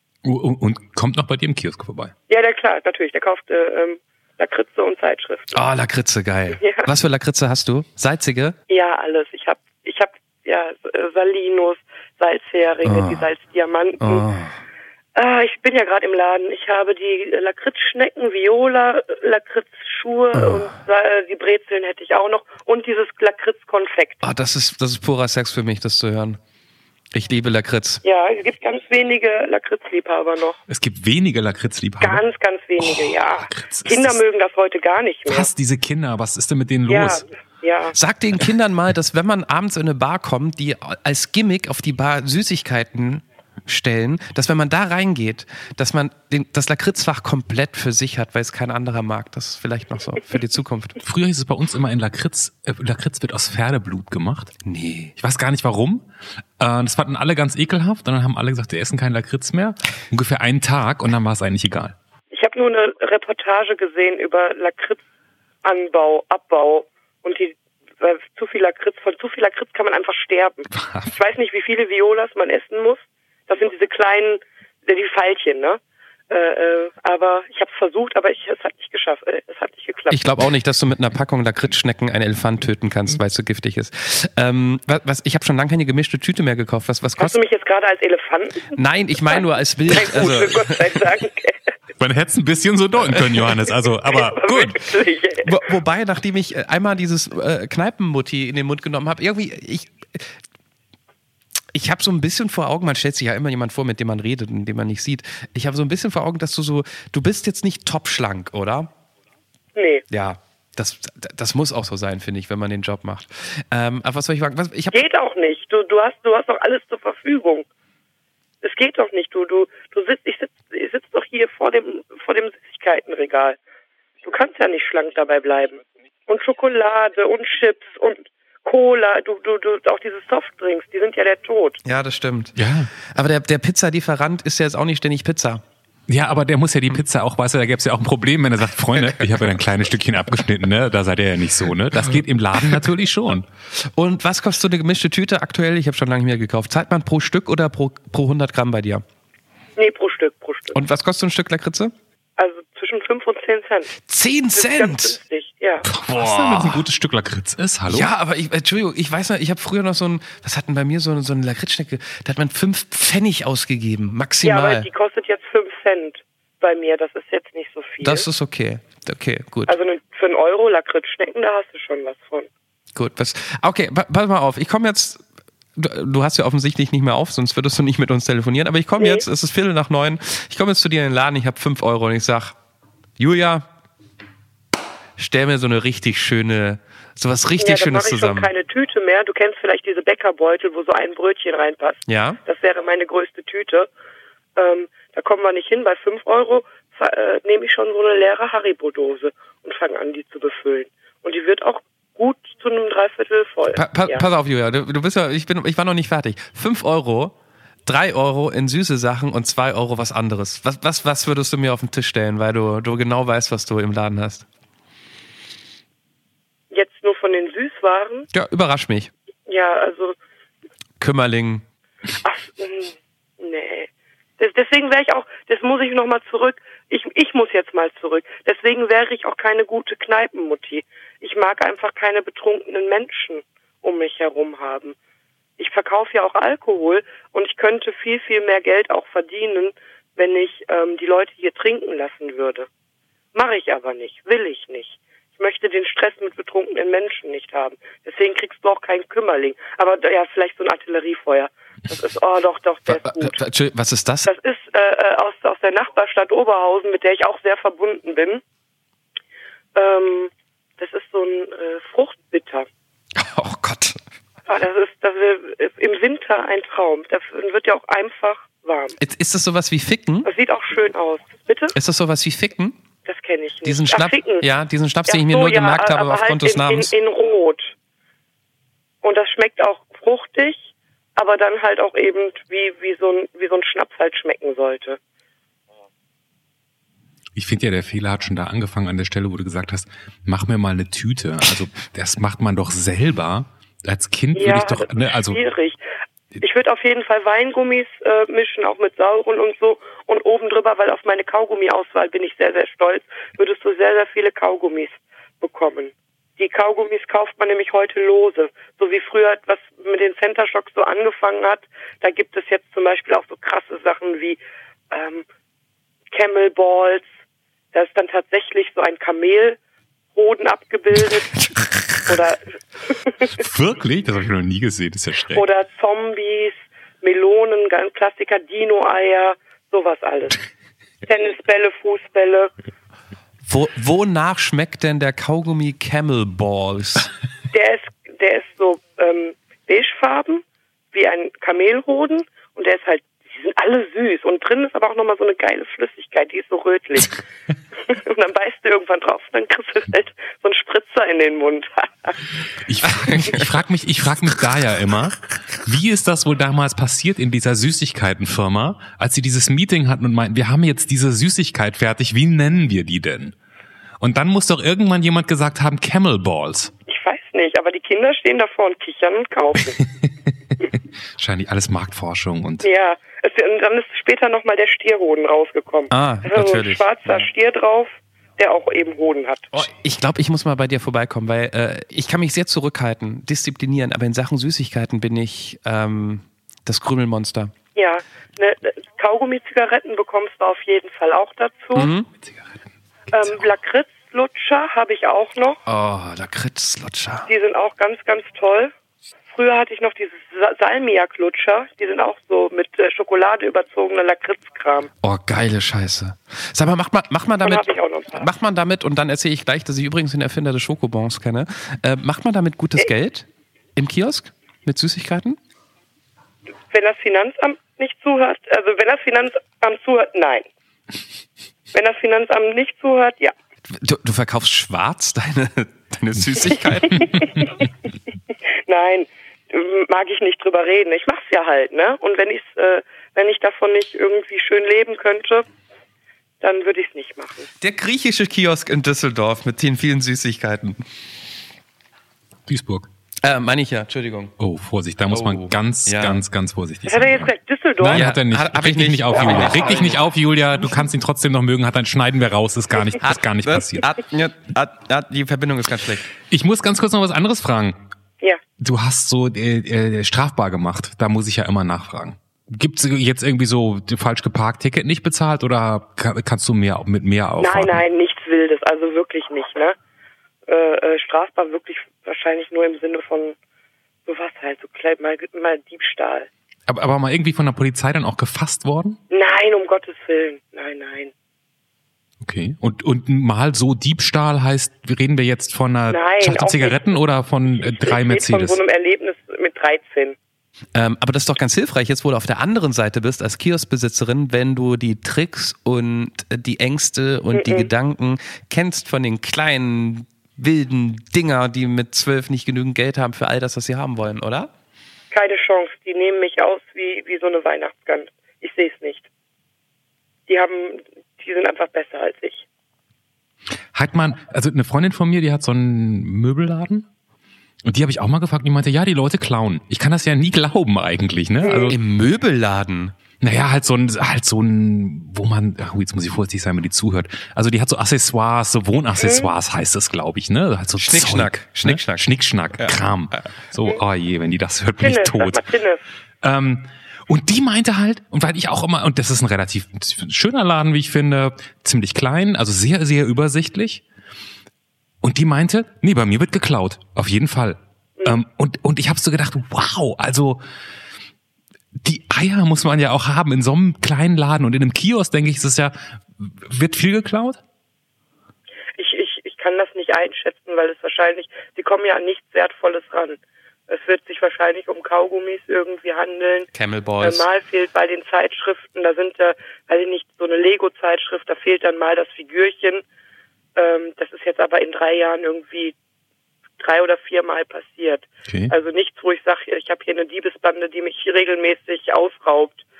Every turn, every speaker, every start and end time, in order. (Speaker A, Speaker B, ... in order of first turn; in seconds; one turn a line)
Speaker A: 0.2-2.1
Speaker B: 2.3-5.6
Speaker C: 5.5-8.5
Speaker B: 6.6-6.9
Speaker B: 8.7-14.2
Speaker C: 12.8-13.3
Speaker C: 14.0-14.6
Speaker B: 15.1-24.2
Speaker C: 20.3-20.7
Speaker C: 24.2-26.4
Speaker C: 27.1-28.0
Speaker B: 28.0-30.6
Speaker A: 30.7-32.2
Speaker B: 32.0-35.5
Speaker A: 32.8-34.2
Speaker A: 35.3-37.2
Speaker B: 36.9-38.0
Speaker C: 37.9-51.0
Speaker A: 51.0-54.5
Speaker C: 54.6-55.1
Speaker A: 55.1-56.1
Speaker A: 56.6-61.9
Speaker B: 62.3-65.0
Speaker B: 65.6-80.2
Speaker A: 70.7-71.1
Speaker C: 80.1-87.4
Speaker B: 87.2-88.8
Speaker C: 88.7-91.0
Speaker B: 89.3-91.7
Speaker A: 92.0-94.8
Speaker B: 94.1-95.6
Speaker C: 95.4-100.3
Speaker C: 101.7-108.9
Speaker B: 109.8-110.0
Speaker C: 110.1-115.0
Speaker B: 114.9-117.7
Speaker B: 118.6-123.6
Speaker B: 124.2-131.8
Speaker C: 131.8-135.6
Speaker A: 132.6-132.9
Speaker A: 136.1-143.5
Speaker C: 139.0-139.4
Speaker C: 143.7-149.0
Speaker B: 149.8-150.8
Speaker C: 150.7-151.9
Speaker B: 152.4-154.0
Speaker C: 154.1-155.2
Speaker B: 154.5-155.8
Speaker A: 155.8-158.1
Speaker C: 156.1-156.8
Speaker C: 157.9-164.9
Speaker B: 164.4-168.3
Speaker C: 168.0-169.7
Speaker B: 169.7-172.5
Speaker C: 172.9-175.2
Speaker C: 175.8-182.6
Speaker B: 179.0-179.2
Speaker C: 183.2-183.7
Speaker C: 185.2-188.5
Speaker B: 187.6-193.9
Speaker C: 192.1-192.4
Speaker B: 194.6-204.2
Speaker C: 203.7-207.3
Speaker C: 207.8-214.5
Speaker B: 216.7-218.3
Speaker C: 218.3-219.1
Speaker B: 219.4-220.2
Speaker C: 221.0-221.6
Speaker B: 222.2-234.9
Speaker B: 235.6-242.7
Speaker B: 243.3-253.4
Speaker C: 252.9-254.3
Speaker B: 254.2-258.4
Speaker B: 259.7-262.7
Speaker C: 263.1-264.0
Speaker B: 264.5-269.0
Speaker C: 269.0-270.3
Speaker B: 270.2-271.8
Speaker C: 271.7-272.8
Speaker B: 273.0-274.4
Speaker C: 273.6-276.9
Speaker B: 275.1-277.7
Speaker B: 279.0-285.0
Speaker A: 287.4-295.4
Speaker B: 294.3-295.8
Speaker B: 296.4-315.2
Speaker B: 316.1-317.1
Speaker B: 317.7-319.6
Speaker B: 320.1-321.4
Speaker C: 320.9-322.2
Speaker B: 322.1-323.4
Speaker A: 323.3-325.4
Speaker B: 325.3-330.4
Speaker B: 331.1-332.5
Speaker C: 333.4-337.1
Speaker B: 337.5-347.2
Speaker B: 347.8-352.2
Speaker A: 352.6-363.3
Speaker C: 353.0-353.4
Speaker A: 364.0-366.7
Speaker B: 366.9-369.8
Speaker A: 371.2-372.7
Speaker B: 372.6-379.6
Speaker C: 375.9-377.3
Speaker C: 379.5-387.5
Speaker B: 387.7-391.9
Speaker C: 391.7-392.1
Speaker B: 393.1-395.6
Speaker C: 395.6-397.3
Speaker B: 397.3-398.7
Speaker B: 399.3-404.9
Speaker C: 405.0-415.4
Speaker B: 407.4-408.3
Speaker B: 416.7-420.4
Speaker B: 421.7-423.3
Speaker C: 423.7-427.3
Speaker B: 426.6-427.5
Speaker B: 428.6-435.4
Speaker B: 436.4-437.5
Speaker C: 437.6-440.8
Speaker A: 442.5-442.9
Speaker C: 443.2-444.3
Speaker A: 444.4-453.9
Speaker C: 445.1-446.2
Speaker B: 446.9-448.1
Speaker C: 447.9-450.0
Speaker C: 453.0-456.1
Speaker A: 456.3-457.8
Speaker A: 458.6-467.8
Speaker B: 467.4-469.8
Speaker B: 470.5-473.4
Speaker B: 474.1-476.3
Speaker A: 476.7-479.0
Speaker B: 479.1-481.1
Speaker A: 482.2-488.6
Speaker B: 485.9-487.0
Speaker B: 487.6-490.1
Speaker C: 490.7-504.5
Speaker B: 497.3-497.7
Speaker B: 505.1-509.1
Speaker B: 510.3-512.4
Speaker A: 513.7-516.9
Speaker A: 517.6-521.8
Speaker B: 521.4-521.7
Speaker C: 521.7-522.9
Speaker A: 523.2-535.4
Speaker B: 529.0-529.3
Speaker C: 530.8-533.2
Speaker B: 534.8-535.8
Speaker A: 536.2-543.8
Speaker A: 545.0-550.4
Speaker A: 551.8-557.4
Speaker B: 558.8-566.5
Speaker C: 566.5-567.3
Speaker B: 567.0-572.8
Speaker B: 573.5-575.7
Speaker B: 576.6-582.6
Speaker A: 578.3-578.5